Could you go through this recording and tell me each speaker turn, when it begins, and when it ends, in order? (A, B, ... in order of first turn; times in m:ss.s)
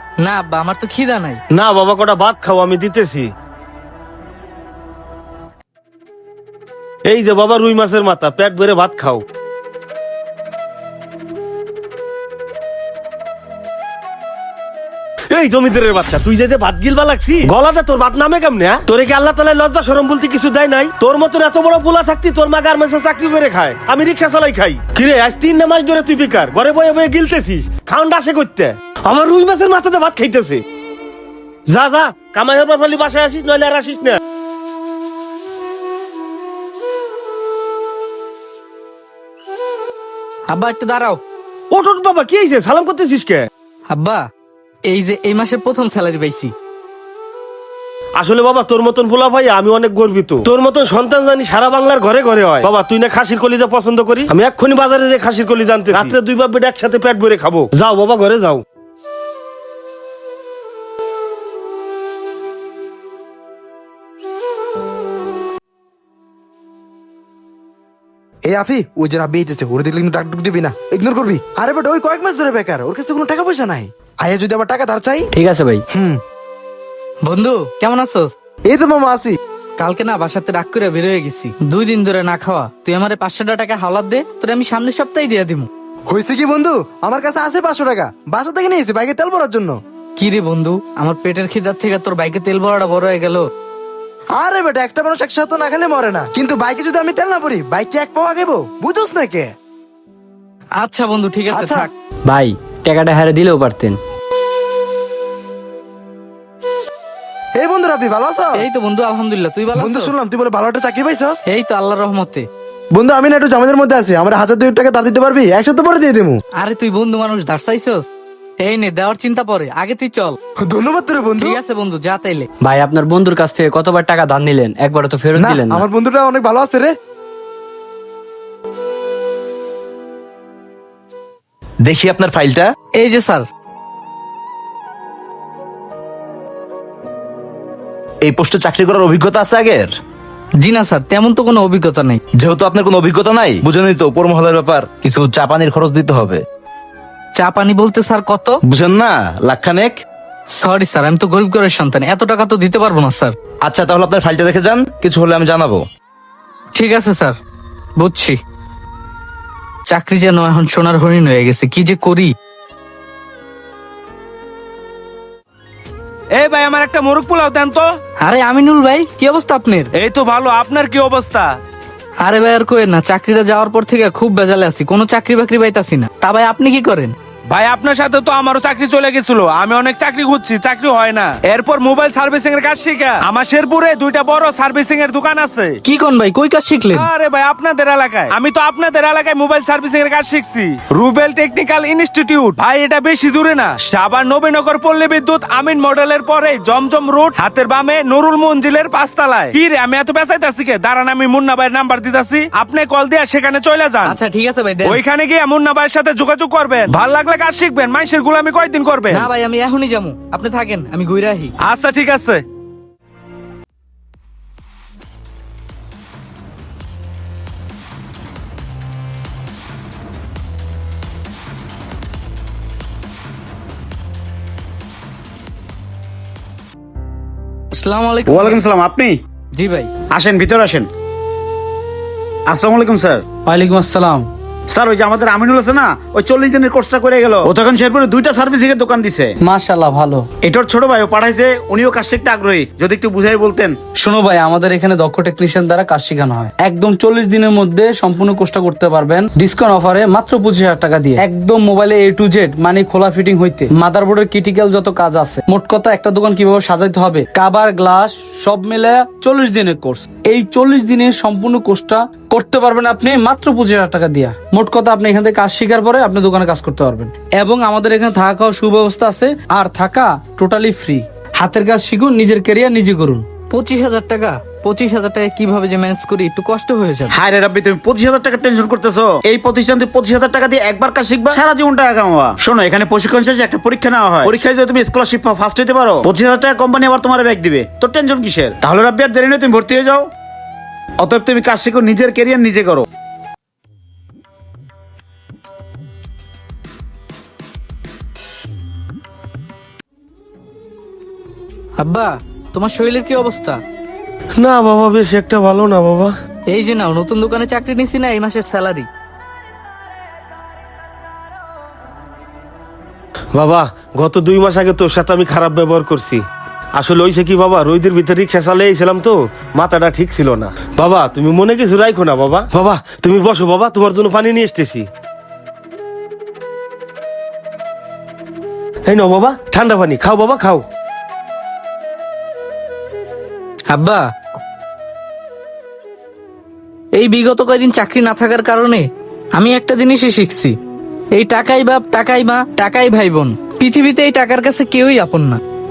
0:00.2-0:01.4 A
0:01.5-0:03.3 B
0:07.0-0:09.2 B
0:15.3-0:30.6 B
0:31.7-0:34.2 B
0:40.5-0:41.2 A
0:41.7-0:43.5 B
0:43.9-0:44.2 A
0:44.9-0:46.5 A
0:48.2-0:58.6 B
1:08.4-1:15.2 C
1:15.3-1:15.8 D
1:15.9-1:16.2 C
1:17.2-1:18.3 A
1:18.7-1:19.4 C
1:19.8-1:25.7 A
1:26.1-1:29.8 C
1:30.2-1:33.5 A
1:34.3-1:39.5 C
1:40.8-1:41.9 A
1:41.5-1:41.9 C
1:42.2-1:44.0 D
1:47.6-1:48.6 C
1:48.5-1:50.1 A
1:49.8-1:51.4 C
1:51.4-1:52.4 A
1:52.9-1:56.4 C
1:56.6-1:58.1 A
1:58.6-2:00.4 A
2:00.6-2:01.6 C
2:01.4-2:02.5 A
2:02.6-2:05.8 D
2:05.4-2:06.9 C
2:11.8-2:12.7 E
2:13.0-2:13.4 A
2:18.2-2:19.9 E
2:20.6-2:22.2 A
2:22.4-2:26.4 E
2:27.4-2:28.6 A
2:28.6-2:30.0 E
2:30.5-2:33.3 A
2:33.6-2:35.8 E
2:36.7-2:37.4 A
2:38.0-2:38.4 A
2:39.9-2:42.3 A
2:46.3-2:47.9 F
2:48.2-2:49.9 A
2:49.9-2:51.5 F
2:52.2-2:57.1 A
2:57.5-3:05.8 F
3:05.8-3:07.1 A
3:06.9-3:24.2 F
3:24.0-3:25.0 A
3:24.8-3:29.3 F
3:29.1-3:31.5 A
3:31.6-3:32.4 F
3:47.7-3:48.6 A
3:48.3-3:49.2 G
3:49.5-3:49.9 A
3:50.1-3:50.9 G
3:52.5-3:53.2 G
3:53.4-3:54.3 H
3:54.7-3:59.3 G
3:59.4-4:00.3 H
4:00.4-4:03.8 G
4:04.0-4:33.2 H
4:33.5-4:37.1 A
4:37.1-4:50.1 G
4:51.0-4:52.8 G
5:01.8-5:03.6 A
5:04.4-5:06.1 B
5:06.5-5:08.9 A
5:13.3-5:16.2 B
5:16.8-5:24.9 B
5:28.9-5:30.6 B
5:33.7-5:34.0 A
5:37.0-5:38.8 A
5:39.4-5:40.5 A
5:41.1-5:45.4 A